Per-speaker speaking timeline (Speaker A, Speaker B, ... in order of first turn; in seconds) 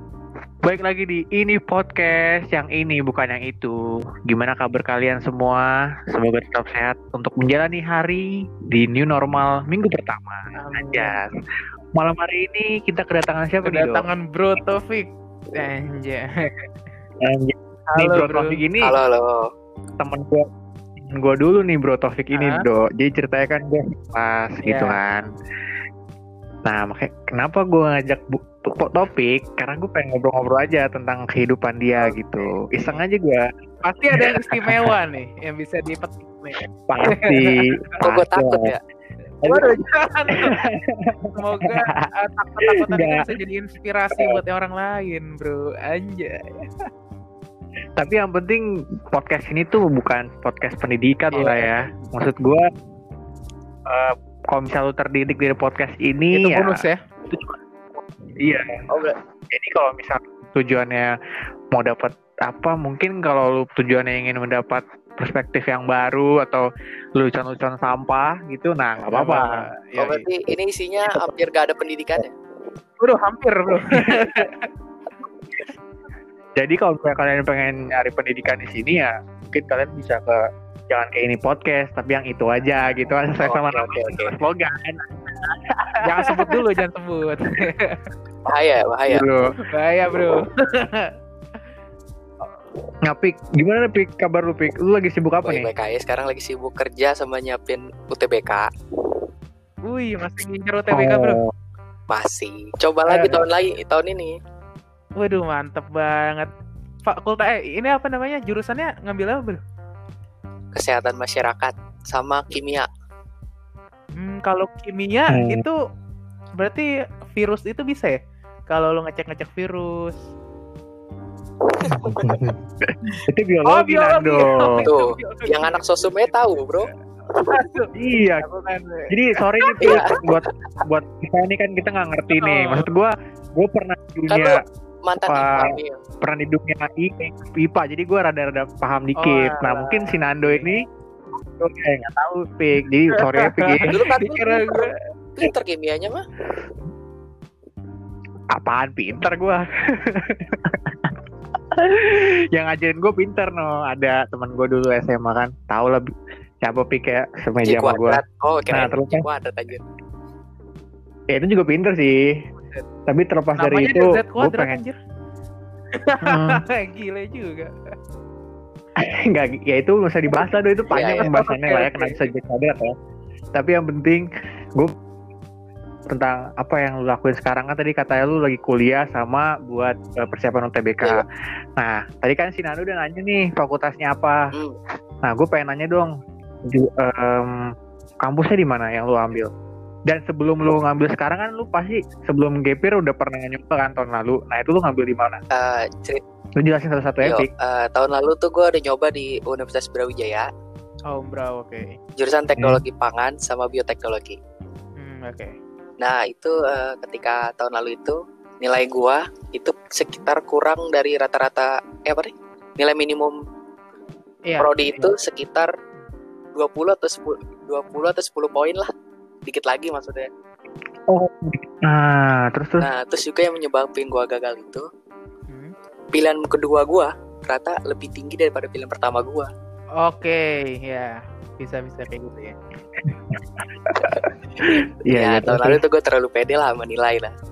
Speaker A: 0.6-11.3, 11.9-14.1, 17.2-18.9, 20.0-25.2, 26.6-33.5, 34.1-35.0, 36.8-38.7, 39.4-39.7, 40.3-41.9, 42.6-43.3, 44.1-44.4, 48.0-52.7, 53.9-57.4, 58.4-58.9, 59.5-61.1, 61.7-69.7, 73.9-74.3, 76.6-86.6, 89.1-89.6, 93.0-95.7, 100.9-101.5, 115.3-115.7, 121.9-124.9, 127.9-128.4, 129.1-134.6, 135.3-140.8, 141.6-143.9, 148.5-151.2, 151.7-156.1, 156.6-159.2, 161.3-162.4, 163.1-164.8, 166.2-166.6, 168.9-172.9, 173.5-174.9, 176.1-181.2, 181.8-184.5, 185.2-186.1, 186.6-189.5, 190.1-195.4, 196.6-197.5, 202.6-202.8, 221.1-222.8, 233.0-235.8
Speaker B: 10.6-11.2, 13.6-16.7, 17.9-18.6, 22.3-22.6, 24.6-25.0, 33.8-37.7, 39.4-40.6, 41.4-46.9, 51.3-52.1, 56.3-57.0, 69.1-70.2, 73.0-74.7, 86.0-88.0, 89.6-91.1, 99.8-101.4, 103.1-103.4, 105.2-106.5, 107.0-109.6, 114.1-115.8, 116.6-120.2, 123.7-126.4, 127.3-130.0, 132.3-132.9, 139.2-140.7, 143.1-144.9, 163.6-165.0, 165.9-167.7, 171.2-172.3, 201.1-202.0, 205.0-205.5, 214.4-214.7, 225.5-225.7, 230.0-232.6
Speaker C: 18.8-19.5, 38.0-38.8, 58.9-59.2, 70.0-72.3, 83.4-84.3, 88.5-89.2, 95.4-98.7, 102.1-104.3, 110.7-112.9, 121.7-122.5, 124.8-126.9, 129.8-130.2, 134.3-136.0, 143.9-146.2, 157.6-159.8, 170.9-171.3, 184.5-184.8, 195.5-196.2, 197.2-200.5, 202.2-204.4, 206.0-213.4, 214.6-215.7, 216.5-218.9, 219.4-220.3, 222.8-224.9, 226.1-229.5, 235.1-237.3